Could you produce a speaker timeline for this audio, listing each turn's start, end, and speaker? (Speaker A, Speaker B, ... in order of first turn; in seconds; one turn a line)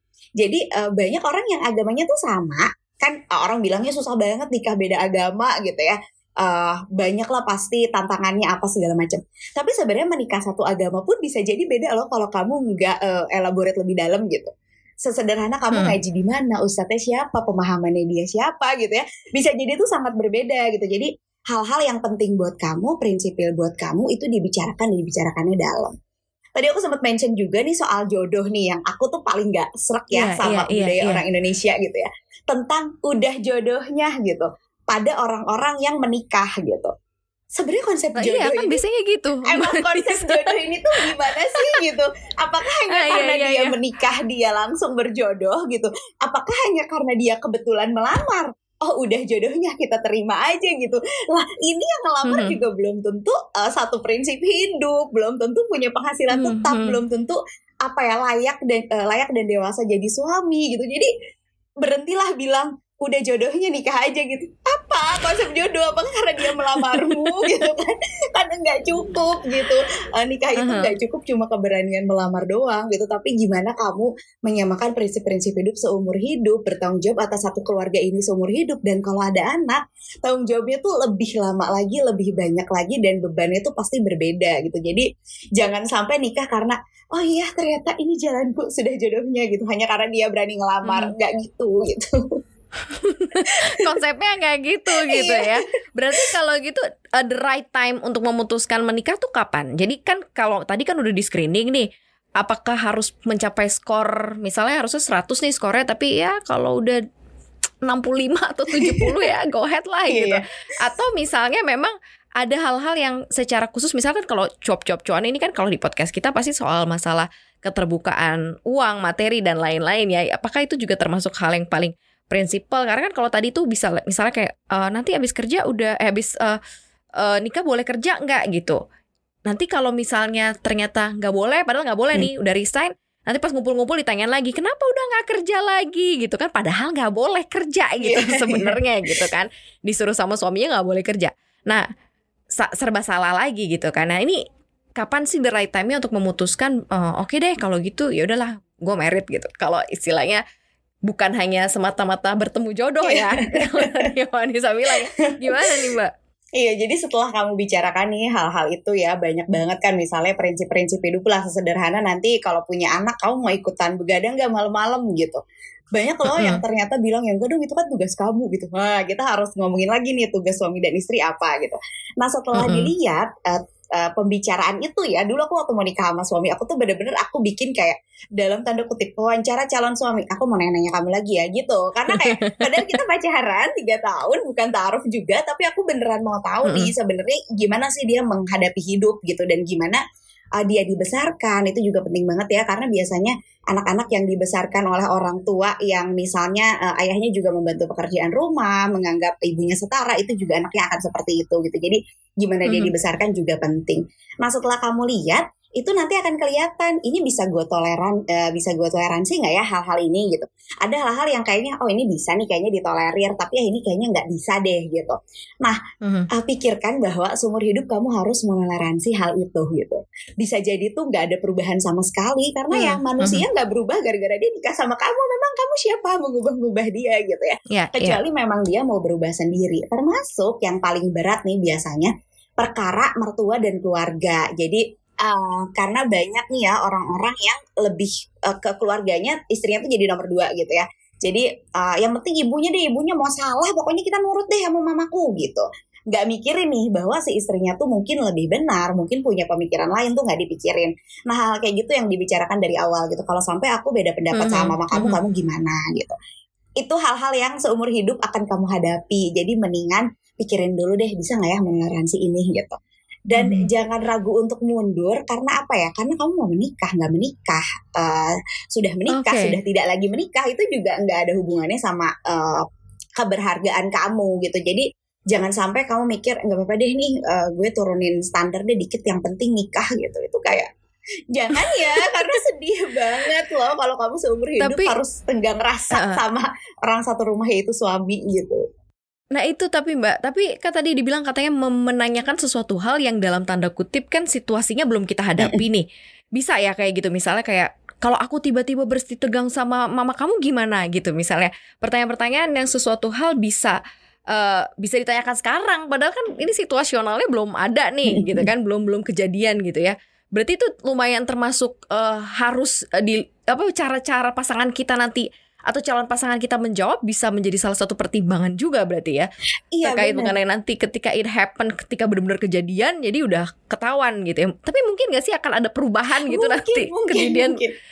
Speaker A: 0.4-14.5
Speaker A: 15.1-25.9
Speaker A: 26.6-36.9
Speaker B: 30.1-31.2
Speaker A: 37.5-38.8
Speaker B: 38.2-40.5
Speaker A: 39.5-61.1
Speaker B: 41.2-41.8
Speaker B: 42.9-43.8
Speaker B: 52.3-52.6
Speaker B: 56.3-57.0
Speaker A: 61.8-85.0
Speaker B: 66.7-67.6
Speaker B: 70.6-70.9
Speaker A: 85.6-92.1
Speaker B: 90.8-91.1
Speaker B: 92.9-101.9
Speaker A: 93.5-93.8
Speaker A: 94.9-95.6
Speaker B: 102.4-107.0
Speaker B: 107.8-126.6
Speaker A: 108.8-109.0
Speaker A: 110.1-110.4
Speaker B: 127.2-128.8
Speaker B: 129.4-141.8
Speaker A: 138.0-139.2
Speaker B: 142.5-144.4
Speaker B: 145.0-150.4
Speaker B: 151.1-156.1
Speaker A: 153.1-154.0
Speaker A: 155.3-155.8
Speaker A: 156.6-165.4
Speaker A: 165.9-190.0
Speaker B: 166.2-166.6
Speaker B: 172.5-172.9
Speaker B: 182.1-183.0
Speaker B: 186.6-186.9
Speaker A: 190.6-215.8
Speaker B: 202.7-202.9
Speaker B: 216.0-216.3
Speaker A: 216.3-256.1
Speaker B: 222.7-223.4
Speaker B: 227.7-228.2
Speaker B: 254.3-255.2
Speaker A: 256.8-262.8
Speaker A: 263.3-272.6
Speaker B: 263.4-263.7
Speaker B: 269.1-269.5
Speaker A: 273.2-280.7
Speaker A: 281.3-288.6
Speaker B: 281.5-282.2
Speaker B: 284.6-284.9
Speaker B: 285.9-286.2
Speaker B: 289.3-303.8
Speaker B: 304.3-319.3
Speaker A: 308.1-308.5
Speaker A: 319.7-320.3
Speaker B: 319.8-327.6
Speaker A: 326.2-327.7